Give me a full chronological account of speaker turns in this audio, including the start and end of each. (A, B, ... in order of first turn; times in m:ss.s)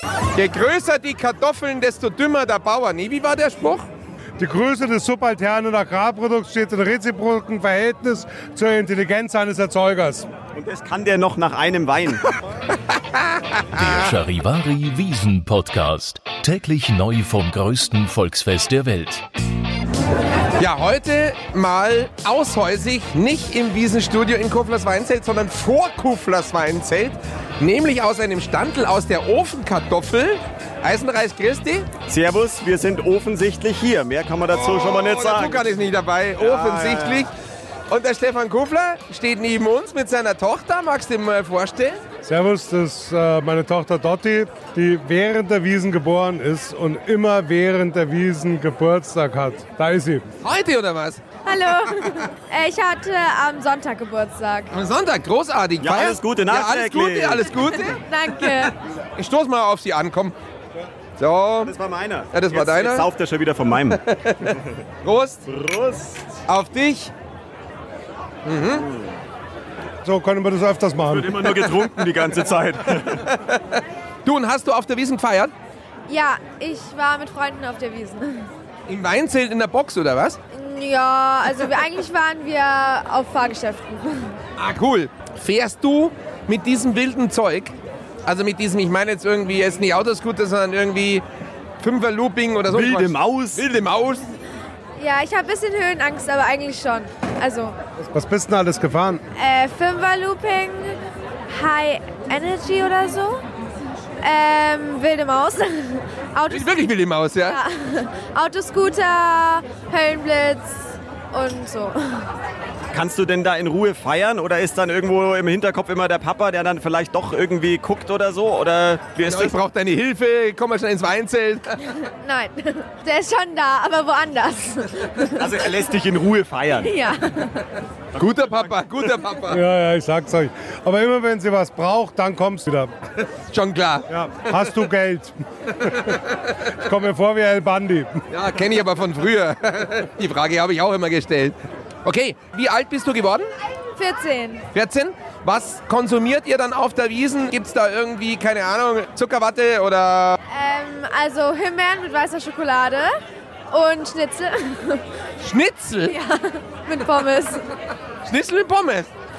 0:00.4-0:03.9 A
0:04.4-0:10.3 B
0:10.5-0:12.4 C
0:12.9-0:13.4 A
0:13.7-0:19.2 D
0:20.6-0:31.9 A
0:32.1-0:35.6 C
0:34.5-0:37.3 A
0:36.4-0:37.3 C
0:37.9-0:42.0 A
0:42.2-0:50.3 B
0:50.4-0:51.2 A
0:51.5-0:54.7 E
0:54.7-0:58.0 A
0:55.8-0:57.8 C
0:57.8-0:58.8 E
0:59.2-1:00.4 A
1:01.2-1:01.7 A
1:01.6-1:04.6 C
1:02.3-1:03.1 A
1:04.0-1:05.4 A
1:05.5-1:06.3 C
1:06.5-1:07.1 A
1:08.5-1:08.9 A
1:08.8-1:09.1 C
1:10.0-1:11.4 B
1:11.1-1:13.3 C
1:13.1-1:15.5 A
1:16.1-1:18.5 E
1:18.9-1:20.4 A
1:20.5-1:24.3 E
1:24.6-1:31.2 A
1:31.8-1:34.3 A
1:32.7-1:33.6 C
1:35.0-1:37.8 E
1:38.0-1:39.2 B
1:39.4-1:41.0 E
1:41.5-1:43.4 E
1:44.2-1:46.8 E
1:46.5-1:47.6 A
1:47.5-1:52.3 E
1:52.9-1:59.6 C
1:59.2-2:02.0 A
2:02.0-2:05.5 E
2:05.4-2:06.9 C
2:06.8-2:07.7 E
2:08.2-2:08.8 C
2:08.2-2:09.6 A
2:09.5-2:12.9 B
2:13.3-2:14.6 A
2:14.1-2:18.2 B
2:15.8-2:16.6 A
2:18.3-2:23.5 A
2:24.0-2:24.6 E
2:24.7-2:30.4 A
2:30.5-2:33.2 E
2:33.7-2:35.0 E
2:35.4-2:36.2 A
2:36.1-2:37.6 E
2:38.2-2:39.1 A